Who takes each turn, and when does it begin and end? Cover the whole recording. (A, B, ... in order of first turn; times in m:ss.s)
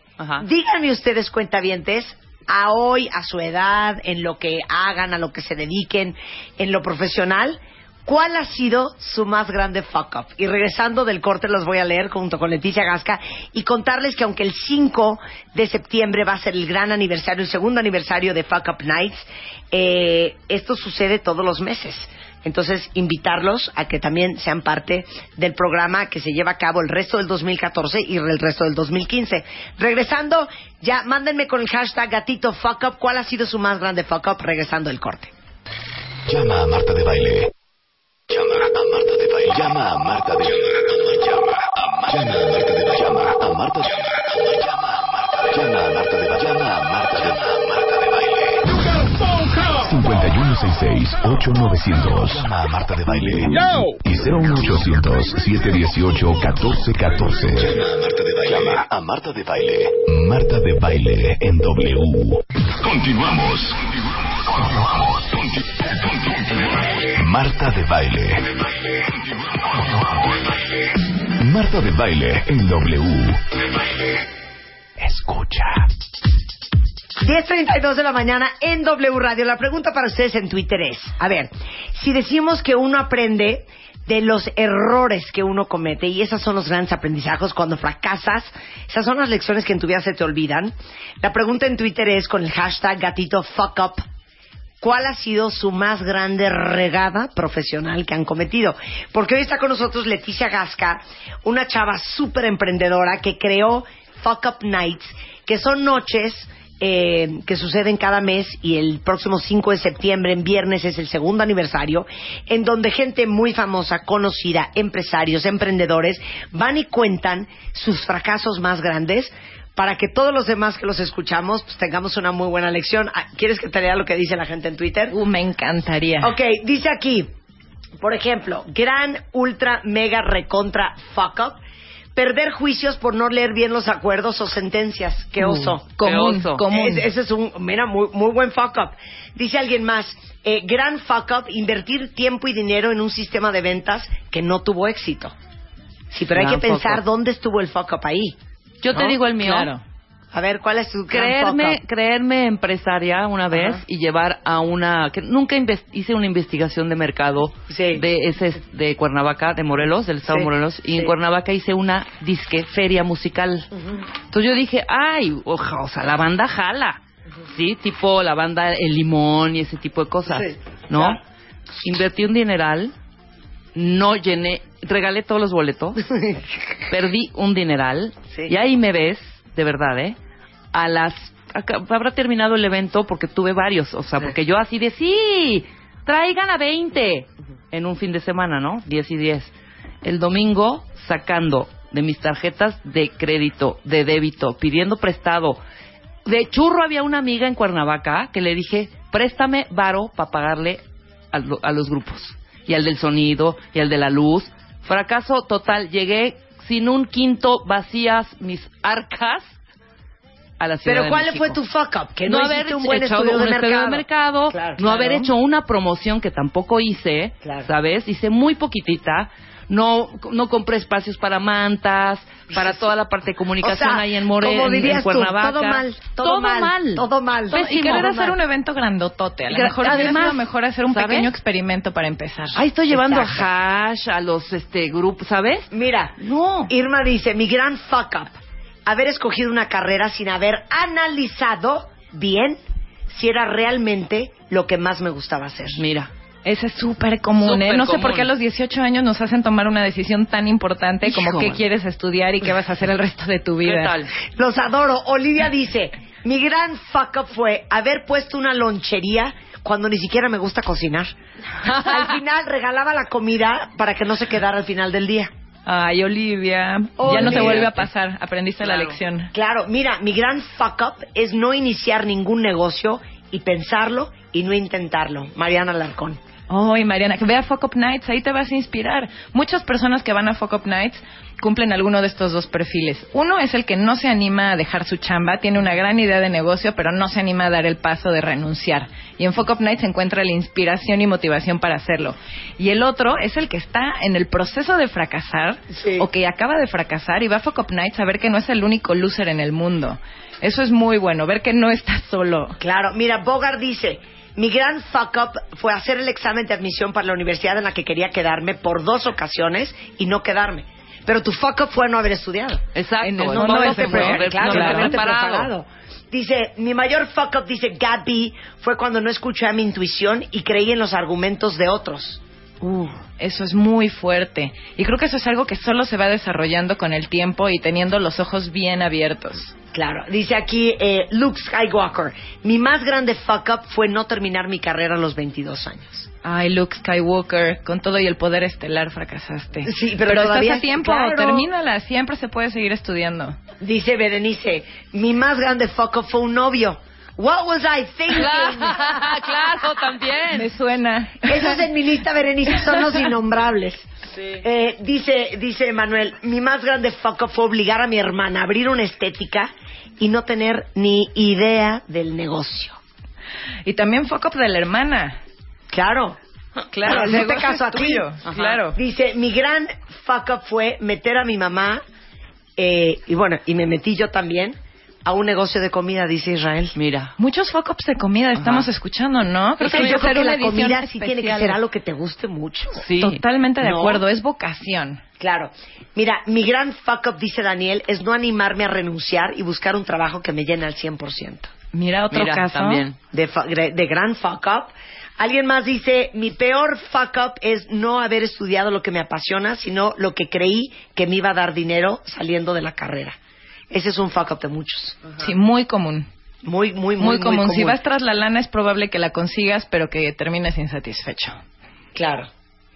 0:00.2-0:00.4 A
0:00.4-0:35.3 B
0:36.3-0:37.5 C
0:38.3-0:48.6 C
0:49.6-1:03.8 C
1:04.6-1:08.5 C
1:09.6-1:10.0 C
1:11.4-1:13.4 C
1:15.0-1:15.9 C
1:17.2-1:34.0 B
1:34.8-2:05.2 B
2:05.1-2:06.3 D
2:06.2-2:07.3 B
2:08.0-2:11.6 B
2:12.2-2:15.8 B
2:15.4-2:17.1 D
2:16.0-2:16.6 A
2:16.7-2:25.4 B
2:26.1-2:28.4 B
2:26.3-2:27.0 A
2:28.8-2:29.7 A
2:28.9-2:29.8 D
2:30.3-2:31.8 B
2:31.1-2:43.7 A
2:33.5-2:33.8 B
2:37.7-2:38.0 B
2:40.3-2:41.1 B
2:44.3-2:51.2 A
2:50.3-2:51.2 B
2:51.8-2:52.9 A
2:53.8-2:56.1 A
2:56.2-2:56.4 B
2:56.9-3:00.2 A
3:00.7-3:09.5 A
3:10.0-3:15.6 A
3:16.3-3:29.6 A
3:30.6-3:31.6 A
3:30.9-3:35.2 B
3:32.2-3:48.4 A
3:34.9-3:35.2 D
3:37.4-3:37.7 B
3:42.5-3:42.8 B
3:43.6-3:47.7 B
3:47.5-3:52.6 D
3:49.5-3:51.3 A
3:52.6-3:55.7 A
3:52.9-3:53.5 B
3:55.7-3:58.3 B
3:56.2-3:56.7 A
3:58.9-4:05.8 B
4:05.7-4:06.1 A
4:06.4-4:13.9 D
4:07.4-4:08.3 A
4:11.1-4:11.6 A
4:13.6-4:14.1 A
4:14.3-4:21.1 B
4:21.6-4:25.3 B
4:21.6-4:22.0 A
4:25.7-4:29.3 D
4:27.0-4:27.7 B
4:27.1-4:27.8 A
4:28.6-4:29.0 A
4:29.3-4:36.2 B
4:36.5-5:02.6 D
4:55.7-4:56.1 B
5:02.6-5:12.6 B
5:12.8-5:15.5 A
5:13.0-5:15.0 D
5:13.3-5:22.2 B
5:22.6-5:29.5 D
5:29.7-5:36.1 B
5:36.2-5:43.4 D
5:39.6-5:41.5 B
5:43.6-5:49.1 B
5:48.1-5:50.5 A
5:50.3-5:51.6 D
5:51.2-6:02.8 B
6:03.7-6:05.2 D
6:05.7-6:06.2 B
6:06.7-6:08.8 D
6:06.8-6:08.1 B
6:08.3-6:08.6 A
6:08.7-6:11.8 B
6:12.6-6:16.8 B
6:16.8-6:17.1 A
6:17.2-6:21.6 D
6:18.4-6:18.7 A
6:19.6-6:22.8 B
6:22.8-6:23.2 A
6:23.0-6:25.0 D
6:23.6-6:24.0 B
6:25.2-6:31.5 B
6:31.7-6:32.8 D
6:32.1-6:33.0 A
6:33.1-6:43.2 B
6:43.7-6:45.2 B
6:45.2-6:46.1 D
6:46.4-6:47.8 B
6:47.0-6:51.4 D
6:52.0-6:52.3 B